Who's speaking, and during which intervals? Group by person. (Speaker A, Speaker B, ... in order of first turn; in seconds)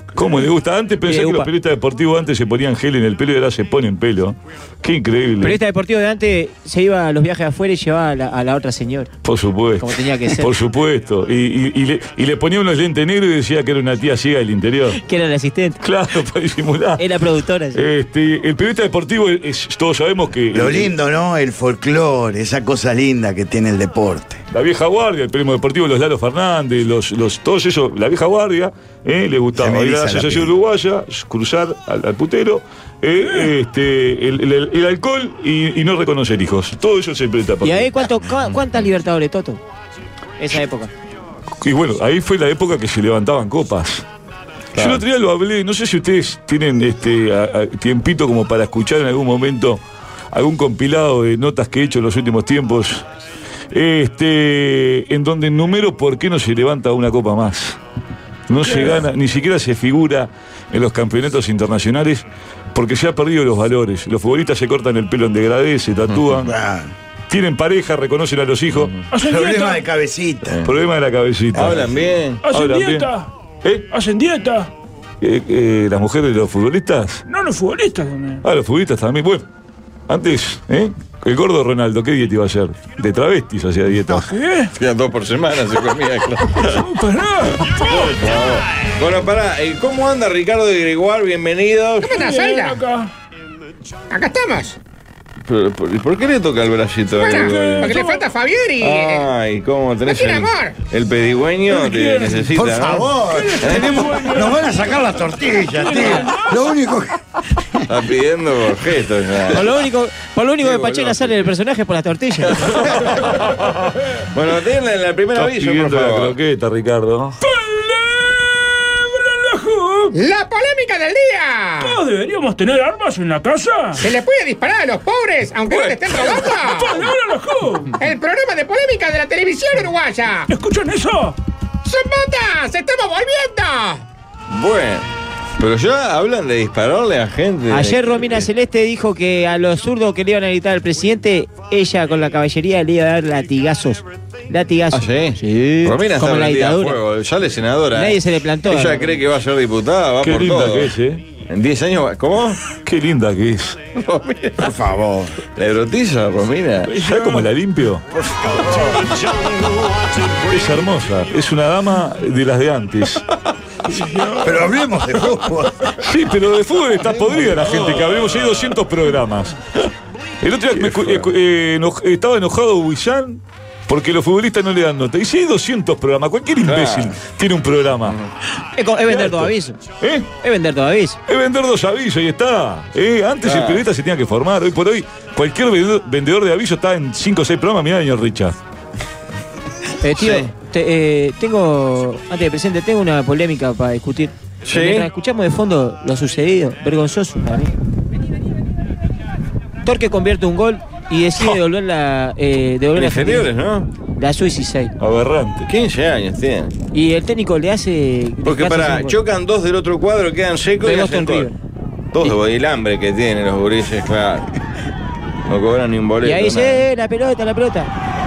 Speaker A: 0.1-5.6, 9.2-15.0, 15.8-17.0, 17.7-20.9, 24.5-37.9, 41.6-44.0, 44.8-49.8, 50.3-53.0, 53.7-57.8, 58.5-66.5, 67.3-69.0, 70.6-73.1, 75.2-77.2, 78.4-79.5, 80.1-84.3, 113.2-113.9, 115.3-117.4, 150.2-151.2, 152.8-153.8, 157.0-158.0, 160.4-163.2, 166.0-169.6, 170.4-178.2, 179.1-180.3, 181.3-188.6, 205.0-205.7
Speaker B: 1.0-1.5, 5.4-9.1, 9.8-10.6, 15.0-15.8, 17.0-17.9, 37.6-39.6, 40.4-40.9, 109.5-112.8, 137.7-147.0, 147.9-149.2, 178.8-179.8, 180.4-181.2, 190.0-197.7, 199.8-203.5, 204.2-204.9, 206.9-209.2, 210.8-211.5, 216.2-217.9
Speaker C: 20.5-24.4, 29.6-30.6, 66.4-66.9, 69.2-70.6, 102.5-107.8, 154.6-155.3, 164.4-165.8
Speaker D: 44.8-45.0, 68.7-69.1, 70.5-70.7, 71.5-72.4, 84.8-86.8, 88.2-92.1, 95.5-98.0, 98.8-104.0, 107.9-109.8, 110.6-111.5, 112.5-113.2, 114.3-116.4, 134.5-135.1, 135.6-138.5, 144.9-151.0, 151.5-152.6, 153.9-154.7, 155.6-157.0, 167.8-168.6, 170.8-171.3, 176.6-177.2, 178.1-178.3, 183.4-183.8, 190.2-190.5, 194.7-195.1, 202.9-203.9, 205.7-206.7, 208.4-211.5, 212.1-214.5, 215.5-216.9
Speaker E: 58.6-59.0, 69.1-69.8, 72.4-73.3, 73.9-74.7, 77.3-78.4, 84.3-84.7, 86.7-88.2, 92.1-93.1, 97.2-98.2, 101.7-102.5, 103.2-104.7, 105.6-106.6, 117.4-118.4, 119.0-120.2, 121.8-124.1, 126.3-128.0, 130.5-131.4, 156.9-157.5, 163.9-164.7
Speaker F: 92.0-92.8, 94.1-94.8, 97.2-99.3, 100.1-100.8, 120.1-122.0, 124.0-127.1, 128.0-130.5, 131.8-134.0